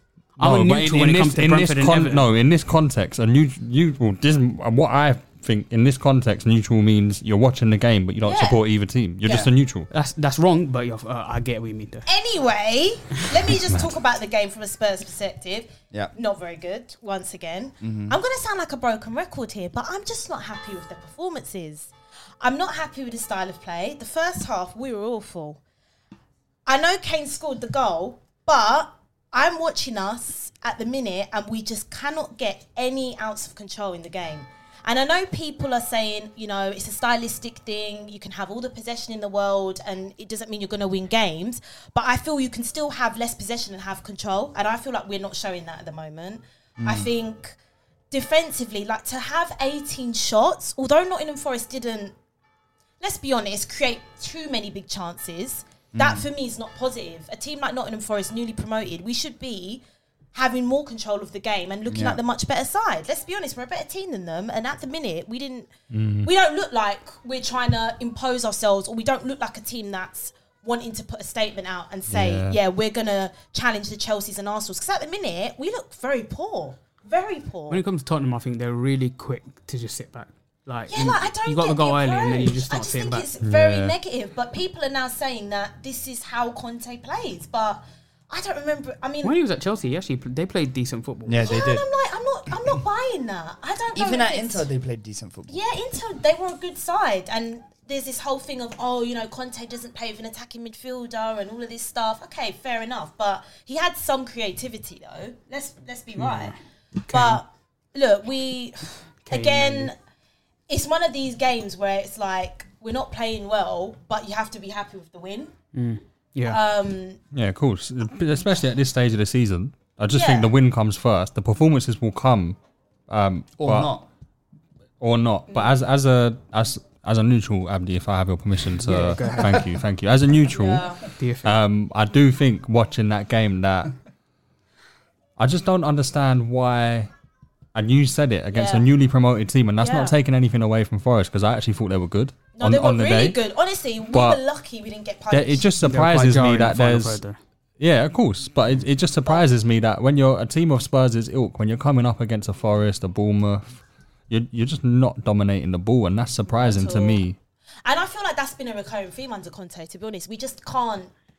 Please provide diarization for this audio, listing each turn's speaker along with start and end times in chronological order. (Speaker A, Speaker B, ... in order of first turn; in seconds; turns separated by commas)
Speaker A: 0.4-2.2, Speaker B: 0.4-9.9, Speaker C: 8.2-8.6, Speaker D: 9.2-9.5, Speaker A: 9.9-12.0, Speaker C: 12.1-25.6, Speaker D: 17.8-18.1, Speaker C: 26.6-47.5, Speaker D: 46.8-47.1, Speaker C: 48.1-52.1, Speaker C: 53.0-59.8, Speaker D: 55.9-56.2, Speaker C: 60.3-65.7, Speaker D: 61.9-62.2, Speaker B: 65.9-66.3, Speaker C: 66.2-77.8, Speaker B: 72.1-72.6, Speaker A: 77.7-83.3, Speaker C: 80.9-89.3, Speaker B: 83.4-83.9, Speaker A: 89.2-91.4, Speaker D: 91.2-91.8, Speaker C: 91.4-94.7, Speaker D: 93.9-95.6, Speaker C: 95.5-106.5, Speaker C: 107.1-109.9, Speaker A: 107.1-107.4, Speaker A: 109.3-109.9, Speaker C: 110.7-115.5, Speaker A: 115.7-116.6, Speaker C: 116.5-117.2, Speaker B: 117.3-122.6, Speaker C: 120.1-120.5, Speaker B: 123.1-123.9, Speaker D: 123.6-124.1, Speaker B: 125.0-133.9, Speaker A: 128.8-129.6, Speaker C: 130.5-131.0, Speaker A: 131.2-131.5, Speaker B: 135.4-137.1, Speaker B: 137.7-143.4, Speaker C: 138.5-138.9, Speaker C: 139.8-140.1, Speaker C: 142.5-145.7, Speaker B: 144.1-144.4, Speaker B: 145.3-147.2, Speaker A: 145.8-147.4, Speaker B: 147.8-157.4, Speaker C: 156.5-157.2, Speaker C: 157.8-161.1